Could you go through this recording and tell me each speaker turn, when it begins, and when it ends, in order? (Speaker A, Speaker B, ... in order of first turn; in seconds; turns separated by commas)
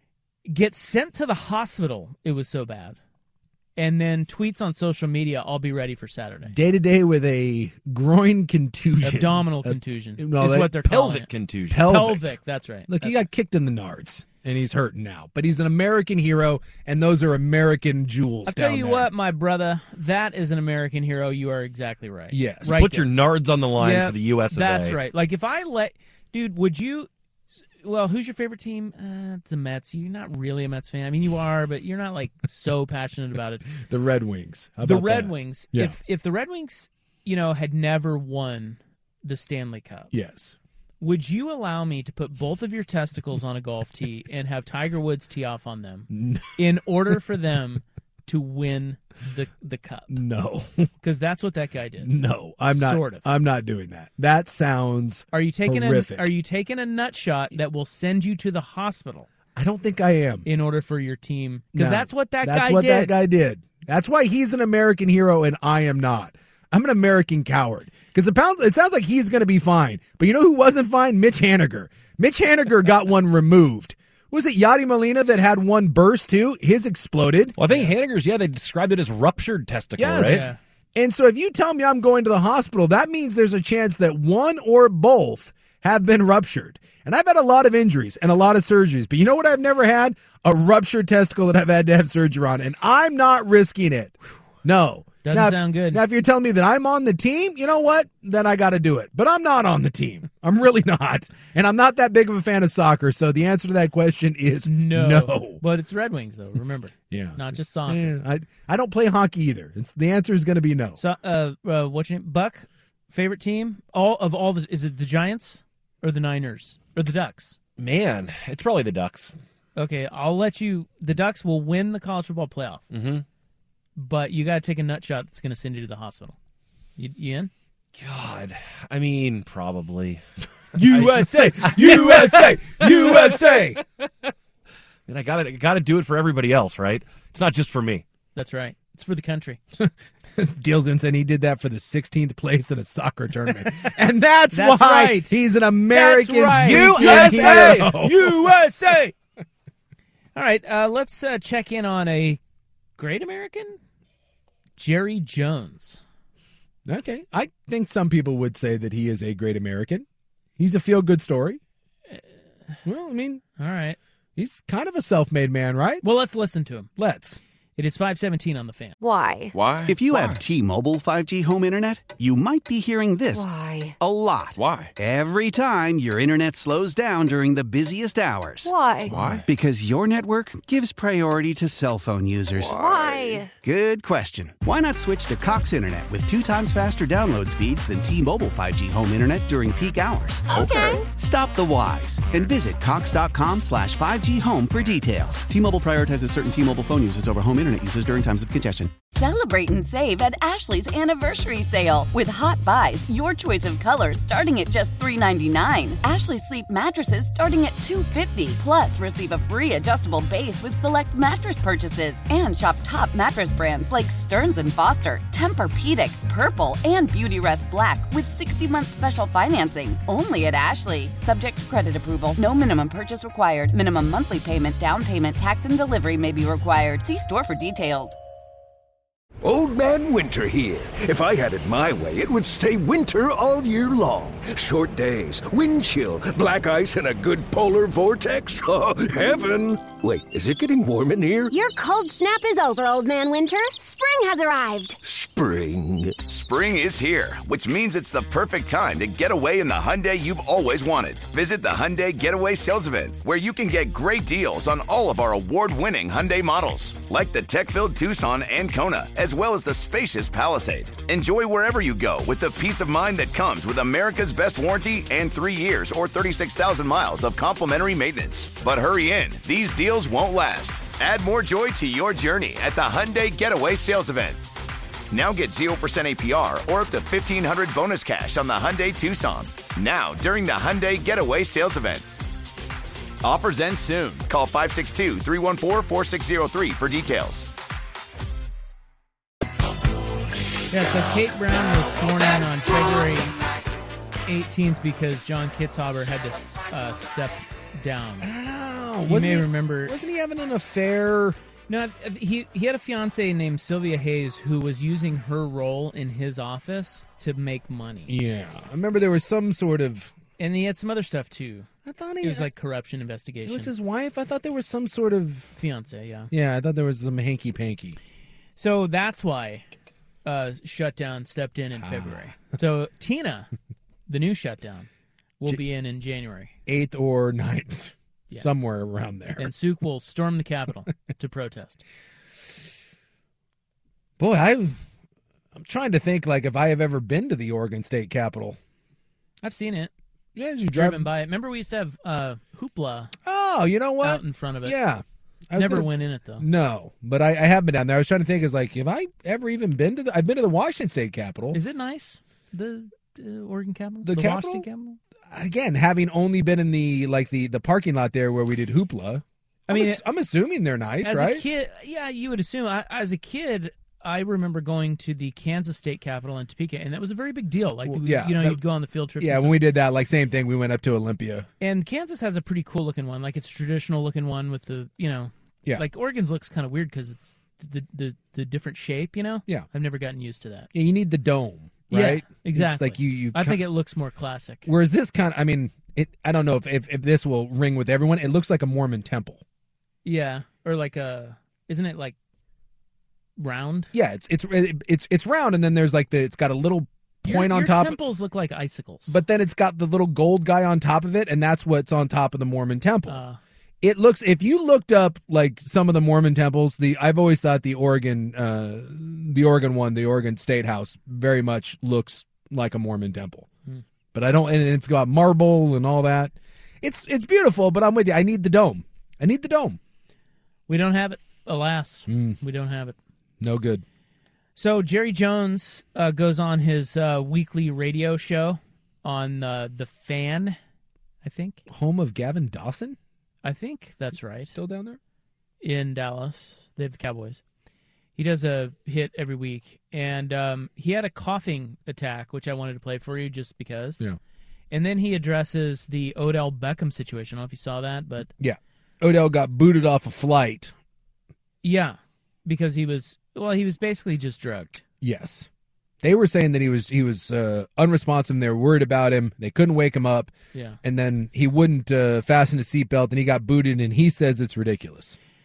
Speaker A: 0.5-3.0, Speaker A: 3.8-6.5, Speaker B: 6.5-10.8, Speaker A: 9.0-13.2, Speaker C: 10.8-11.9, Speaker B: 11.7-12.3, Speaker B: 12.9-19.1, Speaker A: 18.5-23.1, Speaker B: 22.3-22.8, Speaker C: 22.8-25.0, Speaker A: 23.8-27.1, Speaker A: 27.8-33.7, Speaker B: 33.8-36.0, Speaker A: 34.8-40.1, Speaker B: 40.1-40.6, Speaker A: 41.0-50.1, Speaker B: 46.1-46.5, Speaker B: 50.1-50.9, Speaker A: 51.0-52.1, Speaker B: 52.0-56.3, Speaker A: 52.7-53.2, Speaker A: 55.3-59.3, Speaker B: 59.6-60.5, Speaker A: 60.5-63.1, Speaker B: 61.8-77.6, Speaker C: 77.6-80.5, Speaker A: 77.6-77.9, Speaker B: 80.0-105.6, Speaker A: 80.2-80.6, Speaker A: 95.2-96.0, Speaker A: 104.6-108.1, Speaker B: 107.1-111.0, Speaker A: 111.0-117.6, Speaker C: 117.8-119.3, Speaker A: 119.8-122.8, Speaker C: 122.9-123.2, Speaker A: 124.0-126.3, Speaker A: 127.0-127.5, Speaker C: 128.0-130.2, Speaker A: 130.8-132.4, Speaker B: 130.8-133.8, Speaker C: 131.9-132.2, Speaker C: 135.1-138.0, Speaker A: 138.3-139.6, Speaker B: 139.8-148.2, Speaker A: 144.5-145.4, Speaker A: 145.9-149.1, Speaker C: 146.5-148.4, Speaker A: 150.3-152.4, Speaker A: 153.0-153.8, Speaker A: 154.8-156.0, Speaker B: 156.8-160.1, Speaker B: 160.6-161.6, Speaker B: 162.8-163.4, Speaker A: 163.6-164.0, Speaker B: 164.3-166.0, Speaker A: 166.0-166.9, Speaker B: 167.0-167.4, Speaker A: 167.8-169.0, Speaker D: 169.0-169.6, Speaker C: 169.6-170.0, Speaker E: 169.9-173.5, Speaker D: 173.3-173.9, Speaker E: 174.0-178.8, Speaker C: 174.6-174.9, Speaker D: 178.6-179.2, Speaker C: 179.1-179.4, Speaker E: 179.4-183.0, Speaker D: 182.7-183.5, Speaker E: 183.6-198.9, Speaker D: 190.5-191.1, Speaker F: 199.1-228.2, Speaker G: 229.4-241.5, Speaker D: 241.5-245.0, Speaker G: 245.0-246.2, Speaker H: 246.2-274.4, Speaker H: 275.1-282.1, Speaker H: 283.2-287.5, Speaker A: 290.7-293.4, Speaker A: 294.2-298.3, Speaker B: 298.2-301.4, Speaker A: 299.0-300.0, Speaker A: 301.7-308.1, Speaker B: 308.1-310.1, Speaker A: 310.4-311.7, Speaker B: 311.9-312.5, Speaker A: 312.2-313.7, Speaker B: 313.4-315.5, Speaker A: 315.5-316.3, Speaker B: 316.3-318.0, Speaker A: 318.6-319.7, Speaker A: 320.2-323.5, Speaker B: 321.8-322.2, Speaker A: 324.1-326.5, Speaker B: 326.7-329.5, Speaker A: 329.4-331.8, Speaker B: 334.2-334.8, Speaker B: 335.5-338.6, Speaker A: 339.4-339.9, Speaker B: 340.4-341.1, Speaker A: 340.7-343.1, Speaker B: 343.2-351.6, Speaker A: 344.0-344.8, Speaker A: 345.5-346.4, Speaker A: 351.5-355.0, Speaker B: 354.0-354.7, Speaker B: 355.3-361.4, Speaker A: 359.7-360.0, Speaker A: 361.0-369.6, Speaker B: 367.8-368.6, Speaker B: 369.2-371.5, Speaker A: 371.6-380.7, Speaker B: 380.7-383.6, Speaker A: 381.9-384.7, Speaker B: 384.7-389.4, Speaker A: 390.0-392.2, Speaker A: 393.4-393.9, Speaker B: 393.9-398.0, Speaker A: 397.2-399.2, Speaker B: 399.1-403.2, Speaker A: 403.1-403.4, Speaker B: 403.8-413.5, Speaker B: 414.1-419.8, Speaker A: 420.7-423.0, Speaker B: 422.1-422.4, Speaker B: 423.4-423.8, Speaker A: 424.6-430.6, Speaker A: 431.2-431.6, Speaker B: 431.7-433.0, Speaker A: 433.4-434.5, Speaker B: 434.5-435.0, Speaker A: 435.6-437.4, Speaker A: 438.2-444.0, Speaker A: 444.7-448.3, Speaker B: 448.4-450.7, Speaker A: 451.6-454.8, Speaker B: 455.0-455.5, Speaker B: 456.0-465.2, Speaker A: 460.5-460.8